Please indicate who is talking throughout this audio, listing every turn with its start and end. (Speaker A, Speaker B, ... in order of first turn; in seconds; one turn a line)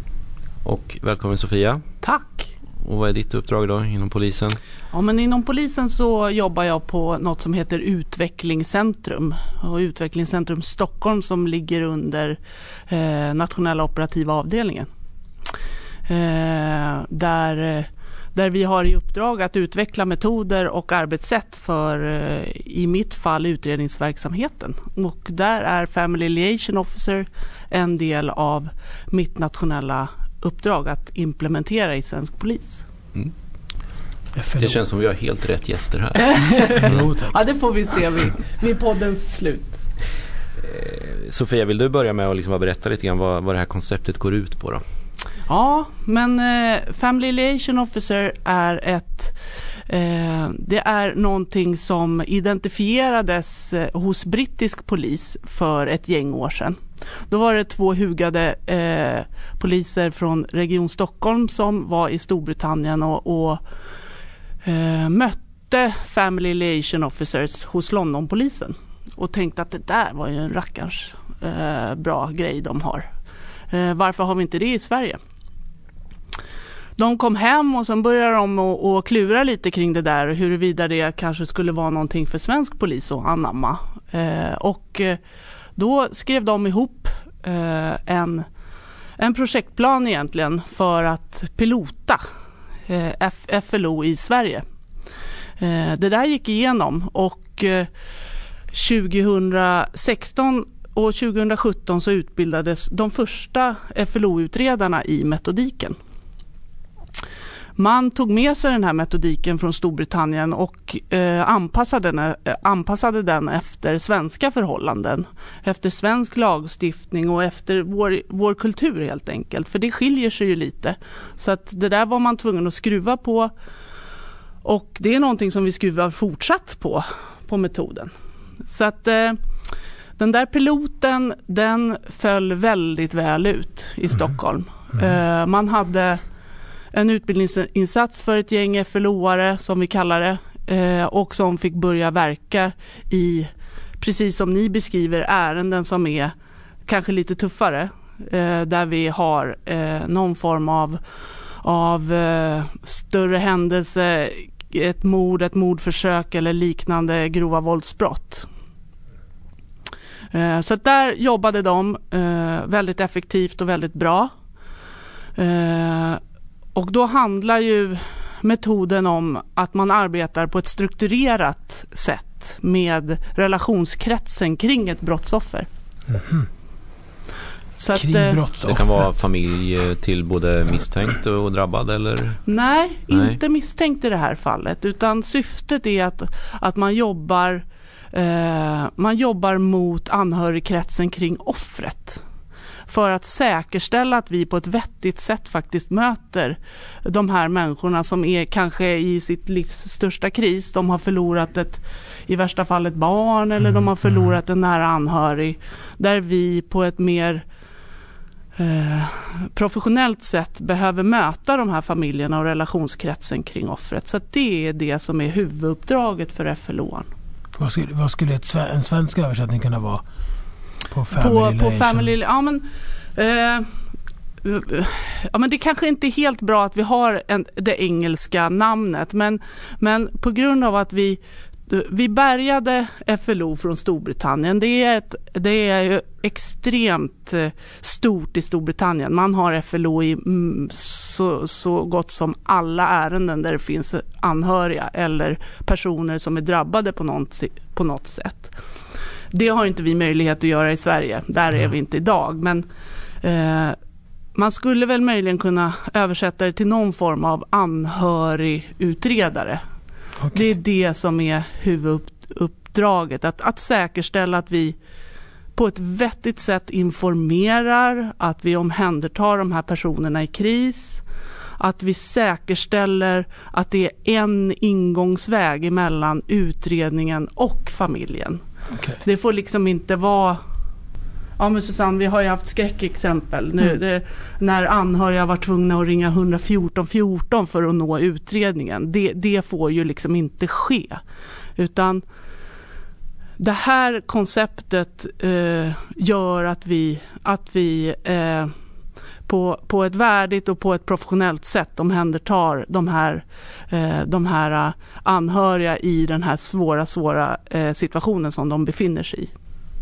Speaker A: 0.6-1.8
Speaker B: 2.0-2.5
Speaker A: 2.8-4.6
Speaker B: 4.9-12.4
Speaker B: 12.9-14.9
Speaker B: 16.1-32.9
Speaker C: 34.3-34.8
Speaker A: 34.6-37.1
Speaker B: 36.3-39.8
Speaker C: 36.8-37.3
Speaker A: 40.6-44.8
Speaker B: 45.5-49.4
Speaker B: 49.9-63.6
Speaker B: 64.6-73.1
Speaker B: 73.7-75.2
Speaker B: 77.0-85.2
Speaker B: 85.8-88.5
Speaker B: 89.2-92.2
Speaker B: 92.9-94.6
Speaker B: 95.6-97.9
Speaker B: 98.7-106.0
Speaker B: 107.8-123.5
Speaker B: 124.6-128.1
Speaker B: 128.7-129.4
Speaker B: 130.2-136.2
Speaker B: 136.9-146.3
Speaker B: 146.9-151.0
Speaker B: 151.6-158.5
Speaker B: 160.3-164.3
Speaker B: 165.4-166.2
Speaker B: 166.8-175.7
Speaker C: 176.1-176.5
Speaker B: 177.8-178.4
Speaker C: 177.9-179.1
Speaker A: 178.6-182.4
Speaker B: 182.5-192.2
Speaker A: 183.1-183.4
Speaker B: 192.9-207.4
Speaker C: 203.6-204.3
Speaker B: 208.6-217.1
Speaker C: 217.6-220.0
Speaker C: 220.9-222.1
Speaker B: 221.1-223.7
Speaker B: 224.4-248.5
Speaker B: 249.3-252.7
Speaker B: 253.2-253.8
Speaker B: 254.3-259.6
Speaker B: 260.3-264.8
Speaker B: 265.6-271.0
Speaker B: 271.6-278.4
Speaker C: 278.7-279.0
Speaker B: 279.0-280.4
Speaker B: 281.4-291.0
Speaker B: 291.6-292.0
Speaker B: 293.4-298.5
Speaker B: 299.3-309.3